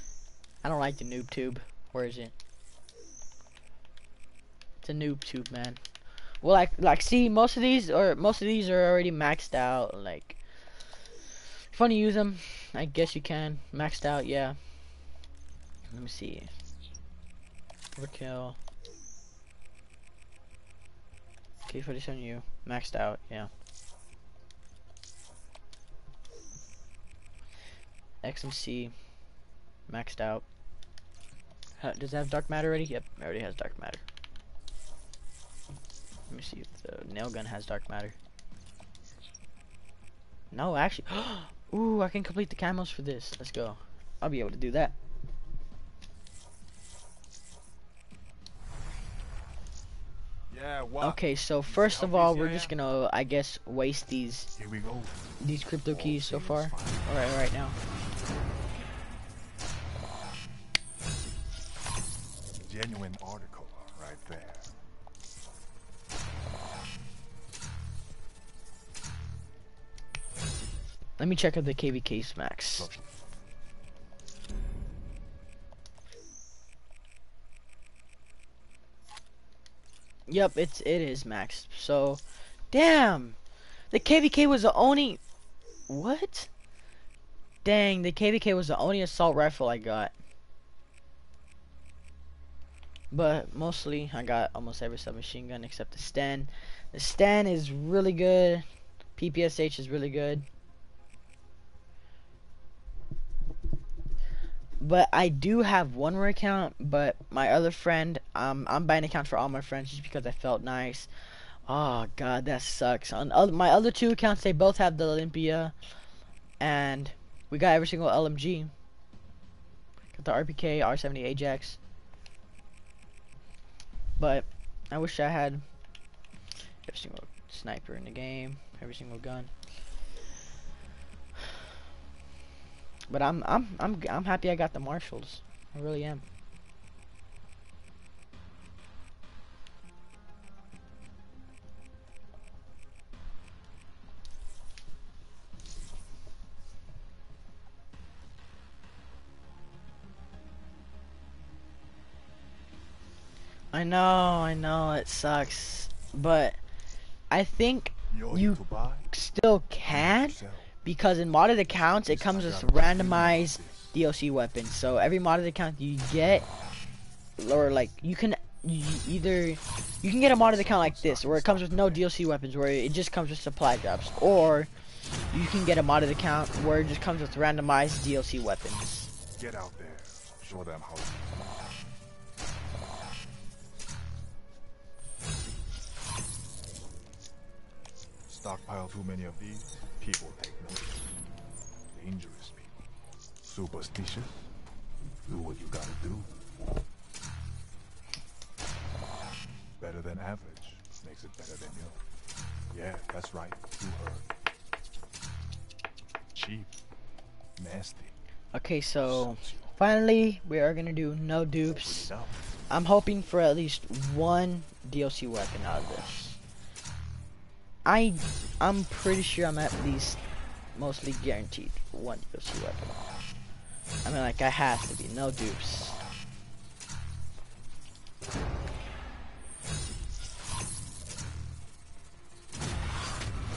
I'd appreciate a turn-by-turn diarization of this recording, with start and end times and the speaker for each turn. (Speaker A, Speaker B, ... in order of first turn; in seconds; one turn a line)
Speaker A: 0.6-2.3
Speaker A: 4.8-5.8
Speaker A: 6.4-10.4
Speaker A: 11.7-14.6
Speaker A: 15.9-16.5
Speaker A: 17.9-18.6
Speaker A: 21.7-23.5
Speaker A: 28.2-28.9
Speaker A: 29.9-30.4
Speaker A: 31.8-34.0
Speaker A: 36.3-38.1
Speaker A: 40.5-45.0
Speaker B: 50.5-52.7
Speaker A: 51.0-54.5
Speaker B: 54.5-55.3
Speaker A: 55.4-57.8
Speaker B: 55.9-57.1
Speaker B: 62.6-64.8
Speaker A: 71.2-72.9
Speaker B: 72.7-73.1
Speaker A: 80.3-83.4
Speaker A: 83.9-85.2
Speaker A: 85.9-86.5
Speaker A: 87.6-90.1
Speaker A: 93.1-98.6
Speaker A: 99.2-100.4
Speaker A: 104.8-111.1
Speaker A: 111.7-115.7
Speaker A: 116.6-118.7
Speaker A: 120.1-121.8
Speaker A: 124.2-125.6
Speaker A: 126.8-129.5
Speaker A: 133.1-136.2
Speaker A: 153.7-156.6
Speaker A: 157.3-166.5
Speaker B: 158.1-159.1
Speaker B: 159.9-160.7
Speaker B: 161.7-163.9
Speaker A: 167.4-174.7
Speaker B: 170.3-172.1
Speaker A: 175.3-179.1
Speaker B: 179.3-181.7
Speaker B: 188.3-191.1
Speaker B: 191.9-192.8
Speaker B: 193.4-194.4
Speaker B: 195.2-196.3
Speaker B: 199.8-202.0
Speaker B: 202.7-204.3
Speaker B: 206.3-206.7
Speaker B: 207.6-208.1
Speaker A: 208.5-212.1
Speaker B: 209.0-209.8
Speaker B: 211.7-212.3
Speaker A: 212.7-216.4
Speaker A: 217.8-220.2
Speaker A: 220.7-223.0
Speaker A: 224.0-226.0